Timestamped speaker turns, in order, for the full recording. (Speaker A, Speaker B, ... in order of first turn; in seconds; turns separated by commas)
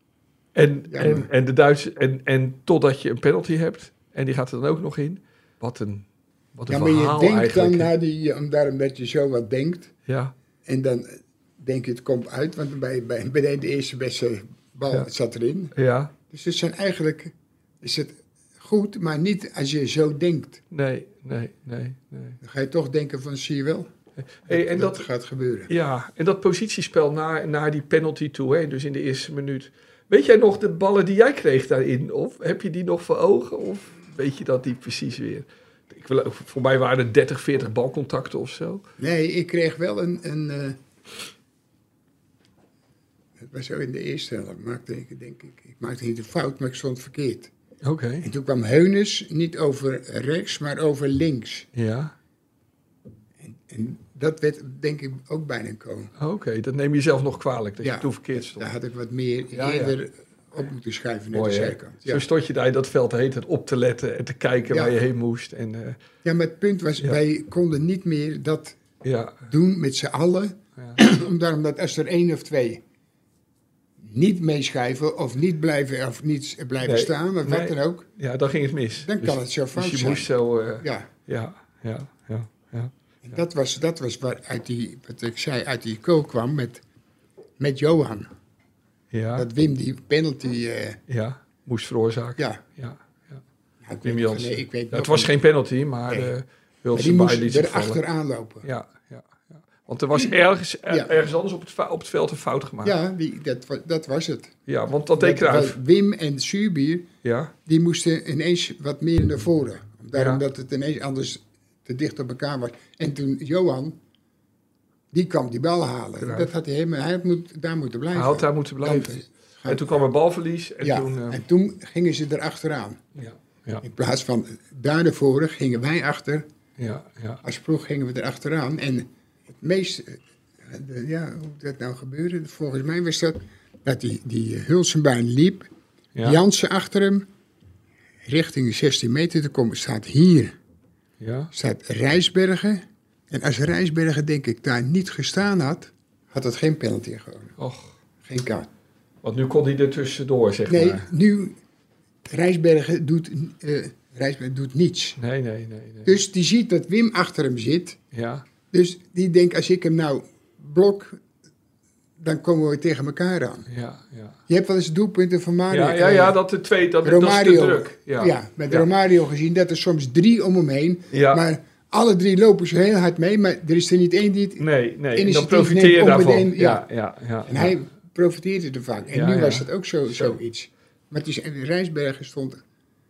Speaker A: 0.6-7.9, Speaker B: 0.9-1.3, Speaker B: 6.7-9.9, Speaker A: 10.1-10.3, Speaker B: 10.7-15.7, Speaker A: 15.7-16.1, Speaker B: 16.3-20.6, Speaker A: 20.7-22.4, Speaker B: 22.4-23.9, Speaker A: 24.2-25.1, Speaker B: 24.5-25.7, Speaker A: 25.7-38.9, Speaker B: 39.0-40.8, Speaker B: 43.4-47.5, Speaker A: 47.8-48.3, Speaker B: 48.2-51.7, Speaker A: 51.8-52.1, Speaker B: 53.4-56.1, Speaker A: 56.2-58.7, Speaker B: 57.8-62.3, Speaker A: 59.5-60.0, Speaker A: 61.3-66.0, Speaker B: 64.7-65.0, Speaker B: 66.2-68.8, Speaker A: 69.0-69.5, Speaker B: 69.5-72.8, Speaker A: 70.8-71.0, Speaker B: 74.0-78.1, Speaker A: 76.8-83.4, Speaker B: 79.0-81.1, Speaker B: 83.2-86.8, Speaker B: 87.6-88.3, Speaker A: 89.1-89.5, Speaker B: 89.4-91.0, Speaker A: 91.1-93.4, Speaker B: 93.8-95.3, Speaker A: 94.0-98.0, Speaker B: 96.1-96.3, Speaker B: 96.9-98.7, Speaker A: 98.6-103.0, Speaker B: 100.9-101.1, Speaker B: 102.8-104.5, Speaker A: 104.7-105.8, Speaker B: 105.2-107.1, Speaker A: 107.2-107.5, Speaker B: 107.7-114.0, Speaker A: 110.2-110.4, Speaker B: 115.1-119.9, Speaker A: 116.2-116.5, Speaker A: 118.1-121.4, Speaker B: 120.8-123.1, Speaker A: 123.2-123.8, Speaker B: 123.8-126.5, Speaker A: 126.8-127.4, Speaker B: 127.4-135.7, Speaker A: 136.2-136.4, Speaker B: 136.2-137.3, Speaker B: 138.2-140.6, Speaker A: 141.2-141.5, Speaker B: 141.5-147.6, Speaker A: 147.6-148.0, Speaker B: 148.2-148.7, Speaker A: 149.2-151.1, Speaker B: 150.7-151.6, Speaker B: 152.3-155.2, Speaker A: 155.2-156.2, Speaker B: 156.1-158.0, Speaker A: 158.1-158.4, Speaker B: 158.7-161.2, Speaker B: 162.2-163.7, Speaker A: 163.7-164.4, Speaker B: 164.5-166.4, Speaker A: 165.7-168.9, Speaker B: 167.0-176.8, Speaker A: 171.1-171.4, Speaker A: 174.6-177.7, Speaker B: 177.4-182.6, Speaker A: 179.1-180.4